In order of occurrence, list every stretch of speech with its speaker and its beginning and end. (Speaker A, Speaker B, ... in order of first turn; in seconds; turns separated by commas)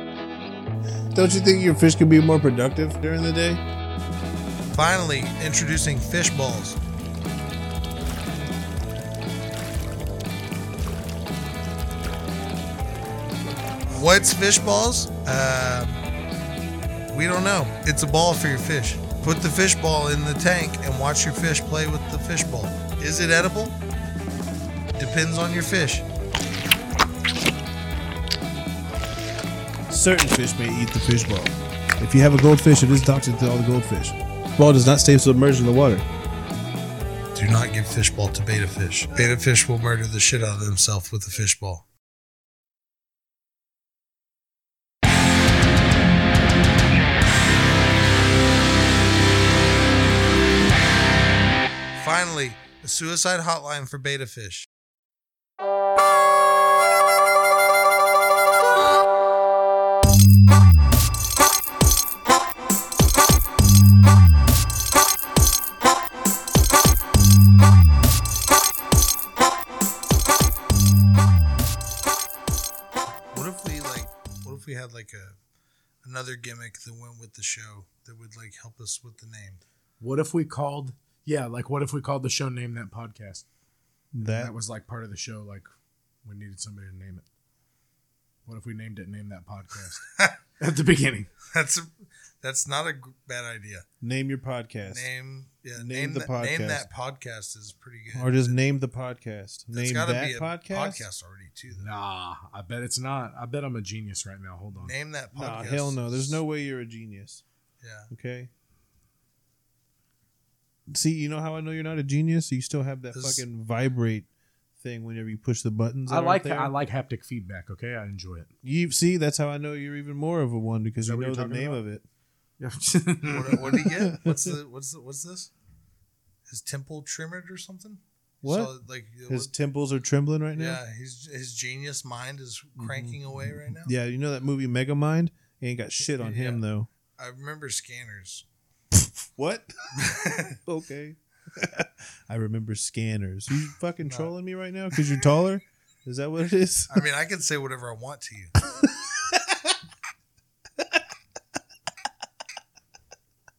Speaker A: 1.1-3.6, Speaker B: 4.7-6.8, Speaker B: 13.9-16.0, Speaker B: 17.1-23.8, Speaker B: 25.0-26.1, Speaker A: 29.9-36.0, Speaker B: 37.4-41.9, Speaker B: 52.0-54.7, Speaker B: 73.3-75.4, Speaker B: 76.0-79.6, Speaker C: 80.0-83.5, Speaker A: 84.1-84.5, Speaker C: 84.2-85.7, Speaker C: 86.2-87.3, Speaker C: 88.5-90.0, Speaker C: 90.6-91.3, Speaker B: 91.5-93.9, Speaker A: 94.0-95.1, Speaker B: 94.9-98.5, Speaker A: 95.8-96.9, Speaker A: 98.1-101.1, Speaker B: 99.7-101.9, Speaker C: 101.8-105.0, Speaker B: 104.8-106.4, Speaker A: 105.3-107.4, Speaker B: 107.8-108.1, Speaker A: 108.1-108.5, Speaker A: 110.9-114.3, Speaker B: 113.1-113.4, Speaker A: 114.8-116.7, Speaker C: 116.1-118.5, Speaker A: 118.6-122.0, Speaker C: 121.0-121.8, Speaker C: 122.6-123.8, Speaker B: 123.2-125.5, Speaker A: 123.6-124.6, Speaker B: 126.5-129.5, Speaker A: 128.4-128.7, Speaker A: 129.3-130.8, Speaker B: 130.6-133.9, Speaker A: 132.8-136.9, Speaker B: 136.2-136.6, Speaker B: 137.2-138.4, Speaker A: 139.4-147.1, Speaker B: 140.0-140.6, Speaker B: 144.1-144.3, Speaker B: 146.9-148.6, Speaker A: 149.1-149.7